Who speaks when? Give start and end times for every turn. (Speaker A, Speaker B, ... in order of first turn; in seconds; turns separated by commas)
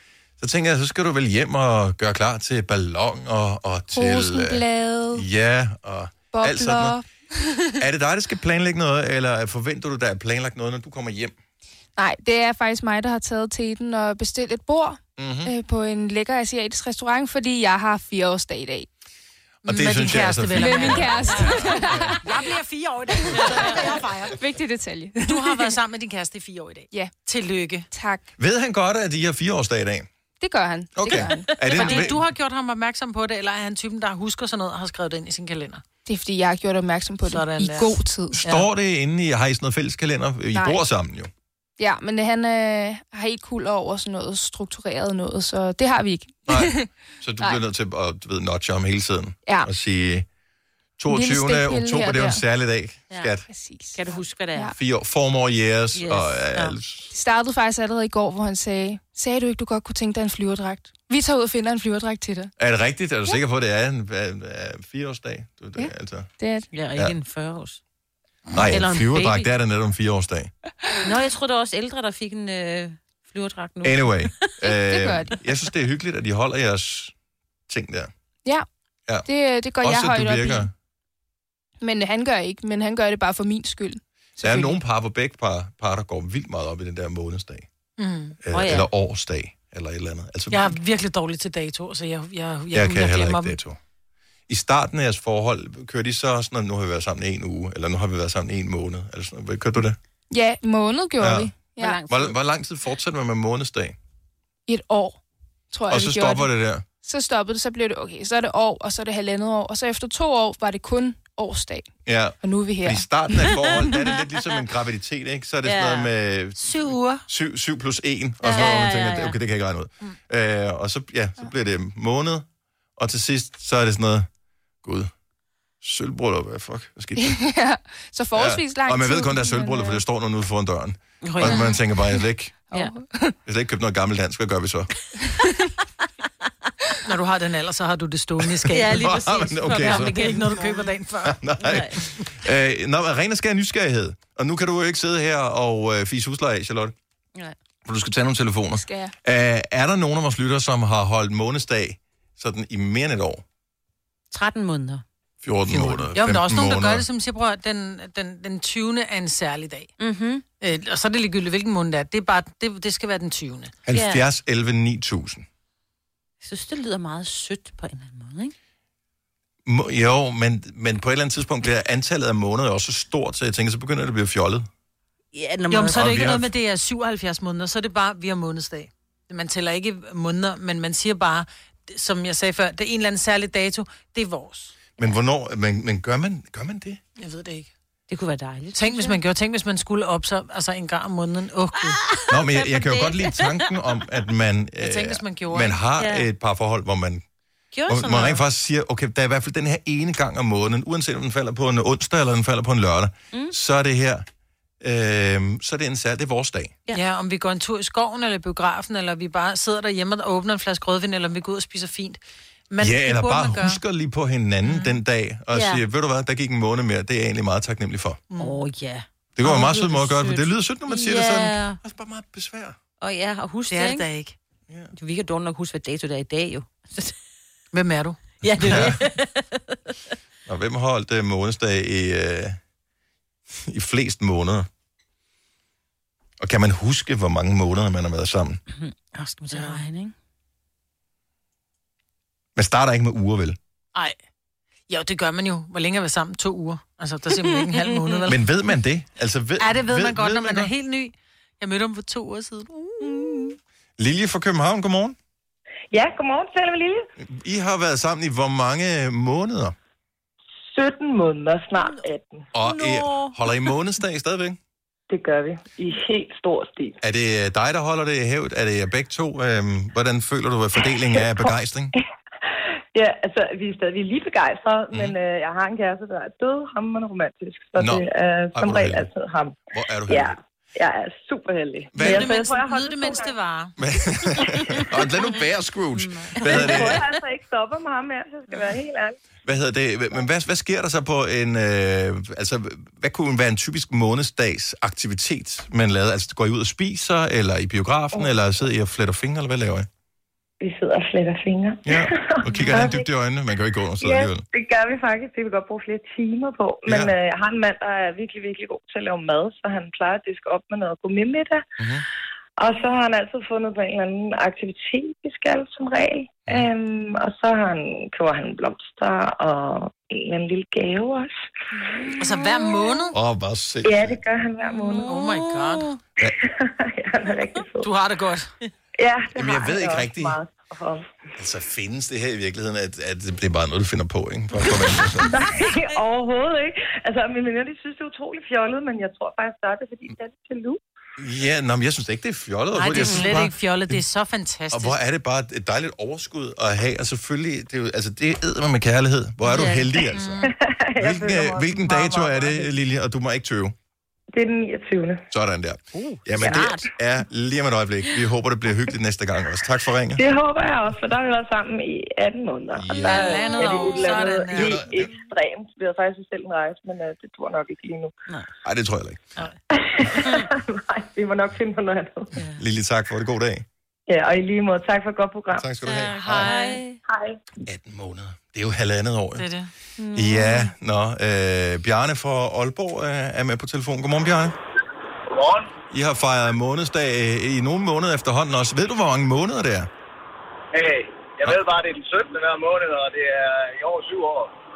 Speaker A: 0.4-7.0, Speaker B: 3.9-5.2, Speaker B: 6.3-7.8, Speaker A: 7.8-11.3, Speaker B: 12.0-18.9, Speaker A: 15.2-15.5, Speaker A: 19.6-22.1, Speaker C: 19.6-24.4, Speaker B: 20.5-22.4, Speaker B: 23.4-25.7, Speaker C: 25.2-27.9, Speaker B: 27.9-28.2, Speaker A: 28.4-30.1, Speaker B: 30.4-31.5, Speaker A: 30.9-32.2, Speaker C: 31.7-35.8, Speaker B: 36.0-38.4, Speaker C: 37.2-38.7, Speaker A: 38.3-41.3, Speaker B: 40.5-40.8, Speaker B: 41.8-46.9, Speaker A: 46.5-50.2, Speaker B: 49.5-49.7, Speaker A: 51.0-53.4, Speaker B: 51.1-52.4, Speaker B: 53.5-54.7, Speaker D: 53.9-54.7, Speaker A: 54.8-57.1, Speaker D: 55.9-56.7, Speaker B: 57.1-62.5, Speaker A: 62.6-66.3, Speaker B: 65.8-66.7, Speaker D: 66.7-67.8, Speaker A: 68.5-70.5, Speaker D: 68.7-69.5, Speaker D: 71.0-74.4, Speaker A: 73.8-77.1, Speaker B: 74.6-75.3, Speaker A: 77.7-78.1, Speaker B: 79.2-80.7, Speaker A: 79.8-80.7, Speaker B: 81.8-84.8, Speaker A: 84.4-87.7, Speaker C: 88.0-88.4, Speaker A: 88.4-90.8, Speaker D: 88.5-88.9, Speaker C: 90.5-93.6, Speaker A: 92.7-93.8, Speaker A: 94.5-100.0, Speaker B: 100.3-102.0, Speaker A: 101.2-101.5, Speaker D: 101.8-102.3, Speaker A: 102.1-104.0, Speaker B: 104.7-105.2, Speaker B: 105.7-111.9, Speaker A: 105.9-106.8, Speaker A: 112.0-122.5, Speaker B: 112.4-113.9, Speaker D: 115.6-116.1, Speaker C: 116.6-117.2, Speaker D: 118.5-119.4, Speaker A: 123.0-124.3, Speaker A: 124.8-125.1, Speaker A: 125.8-127.4, Speaker B: 127.2-130.0, Speaker A: 128.3-132.6, Speaker D: 131.3-131.7, Speaker C: 131.4-131.7, Speaker B: 132.7-133.3, Speaker A: 133.4-134.9, Speaker C: 137.0-139.1, Speaker D: 138.7-140.8, Speaker A: 138.8-140.4, Speaker C: 139.7-141.4, Speaker A: 141.2-146.9, Speaker D: 141.6-142.0, Speaker A: 147.8-153.4, Speaker B: 148.7-149.1, Speaker D: 154.3-155.0, Speaker A: 155.4-157.0, Speaker C: 155.7-159.9, Speaker D: 160.0-160.4, Speaker C: 160.6-163.7, Speaker A: 163.8-165.4, Speaker D: 163.9-164.2, Speaker D: 166.4-168.5, Speaker A: 169.7-174.7, Speaker D: 175.3-176.3, Speaker C: 175.7-184.7, Speaker A: 175.9-176.5, Speaker A: 185.0-187.0, Speaker C: 187.2-187.7, Speaker D: 188.1-189.2, Speaker C: 188.7-192.0, Speaker D: 192.0-193.7, Speaker A: 192.3-197.2, Speaker C: 194.8-195.8, Speaker D: 196.0-196.3, Speaker D: 197.7-198.4, Speaker A: 197.9-204.2, Speaker A: 204.8-206.8, Speaker C: 206.9-213.8, Speaker A: 212.8-218.2, Speaker C: 214.6-214.9, Speaker D: 215.5-215.8, Speaker C: 218.3-218.6, Speaker D: 218.4-221.8, Speaker A: 219.3-222.8, Speaker D: 223.0-224.1, Speaker C: 223.7-224.3, Speaker D: 224.9-227.1, Speaker C: 227.7-229.0, Speaker D: 228.4-229.6, Speaker A: 228.6-229.0, Speaker A: 230.4-232.6, Speaker A: 233.7-234.7, Speaker A: 236.4-238.6, Speaker D: 238.7-240.1, Speaker C: 239.5-239.8, Speaker A: 242.6-243.6, Speaker C: 244.9-248.4, Speaker D: 247.4-248.2, Speaker A: 248.3-250.7, Speaker C: 249.6-253.5, Speaker A: 254.0-255.2, Speaker E: 255.9-257.1, Speaker A: 257.2-259.7, Speaker E: 260.6-262.5, Speaker A: 262.5-264.6, Speaker D: 262.6-263.3, Speaker E: 265.1-267.0, Speaker A: 267.0-271.9, Speaker E: 271.0-271.5, Speaker E: 272.4-279.6, Speaker A: 277.8-278.0, Speaker A: 278.5-279.1, Speaker A: 279.7-280.4, Speaker E: 280.1-283.3, Speaker A: 281.9-282.3, Speaker C: 282.0-283.8, Speaker A: 283.8-287.0, Speaker C: 284.4-284.8, Speaker D: 286.4-287.0, Speaker E: 286.4-289.2, Speaker A: 289.4-299.9, Speaker E: 300.6-303.1, Speaker A: 301.8-304.4, Speaker C: 302.5-302.9, Speaker E: 304.0-311.6, Speaker A: 306.9-307.1, Speaker A: 311.8-312.0, Speaker E: 312.6-321.4, Speaker D: 321.8-322.1, Speaker C: 322.2-323.1, Speaker A: 323.1-324.2, Speaker E: 323.8-325.1, Speaker D: 324.7-326.0, Speaker C: 325.0-325.9, Speaker E: 326.2-327.9, Speaker C: 327.8-328.5, Speaker E: 329.0-331.2, Speaker A: 329.4-330.3, Speaker A: 331.4-335.4, Speaker E: 335.2-340.8, Speaker A: 341.2-344.0, Speaker C: 342.7-345.0, Speaker D: 343.0-343.2, Speaker A: 344.7-350.4, Speaker D: 349.4-350.0, Speaker C: 350.1-350.5, Speaker E: 350.4-351.9, Speaker A: 351.0-353.7, Speaker C: 351.9-352.6, Speaker E: 354.3-355.3, Speaker A: 355.3-360.2, Speaker D: 355.9-356.9, Speaker E: 360.1-368.1, Speaker A: 362.7-363.3, Speaker C: 363.0-364.8, Speaker A: 364.5-365.1, Speaker A: 368.6-369.2, Speaker E: 369.7-372.3, Speaker A: 372.6-373.6, Speaker E: 374.1-375.6, Speaker A: 375.6-376.5, Speaker D: 375.8-377.0, Speaker C: 376.2-376.8, Speaker E: 377.1-377.4, Speaker A: 377.6-379.5, Speaker C: 379.4-379.7, Speaker D: 380.0-380.7, Speaker A: 380.1-384.5, Speaker F: 385.3-385.7, Speaker A: 385.9-389.9, Speaker F: 390.7-394.5